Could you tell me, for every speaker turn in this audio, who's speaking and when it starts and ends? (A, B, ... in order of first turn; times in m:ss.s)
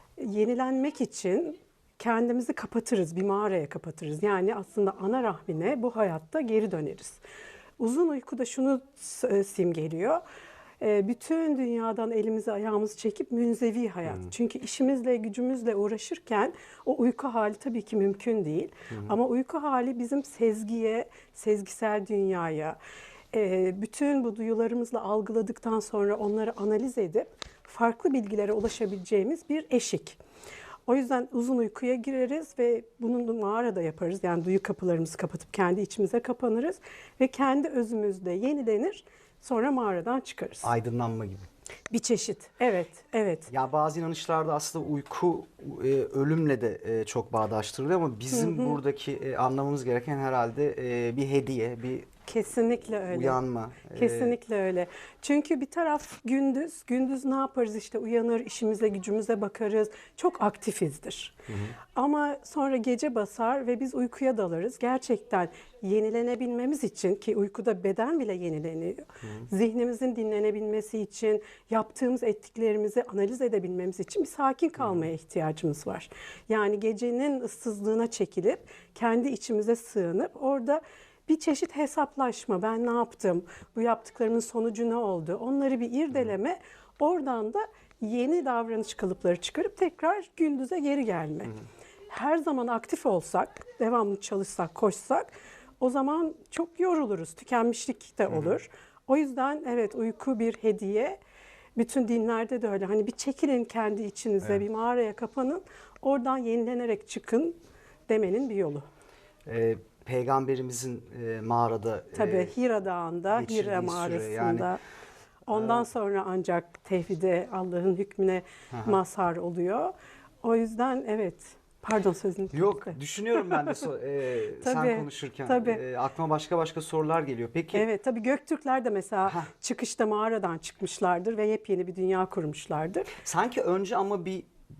0:00.2-0:07.2 A
0:07.8-0:10.2 A
0:10.8-0:22.8 A
0:14.0-0:14.3 B
0:18.9-0:19.2 B
0:23.3-0:30.2 A
0:30.9-0:40.7 A
0:40.6-0:41.5 B
0:41.9-0:43.5 A
0:43.5-0:52.1 B
0:48.3-0:48.8 A
0:52.3-1:01.3 A
0:53.1-0:54.4 B
1:01.5-1:01.8 B
1:01.9-1:31.5 A
1:14.8-1:15.0 B
1:32.1-1:41.2 A
1:41.8-1:48.8 A
1:49.4-1:52.6 B
1:52.1-1:54.8 A
1:53.3-1:54.7 B
1:55.4-2:03.8 A
1:55.5-1:55.9 B
1:58.7-1:59.0 B
2:02.5-2:07.8 B
2:04.6-2:05.8 A
2:07.7-2:13.1 A
2:09.2-2:09.5 B
2:13.2-2:14.5 B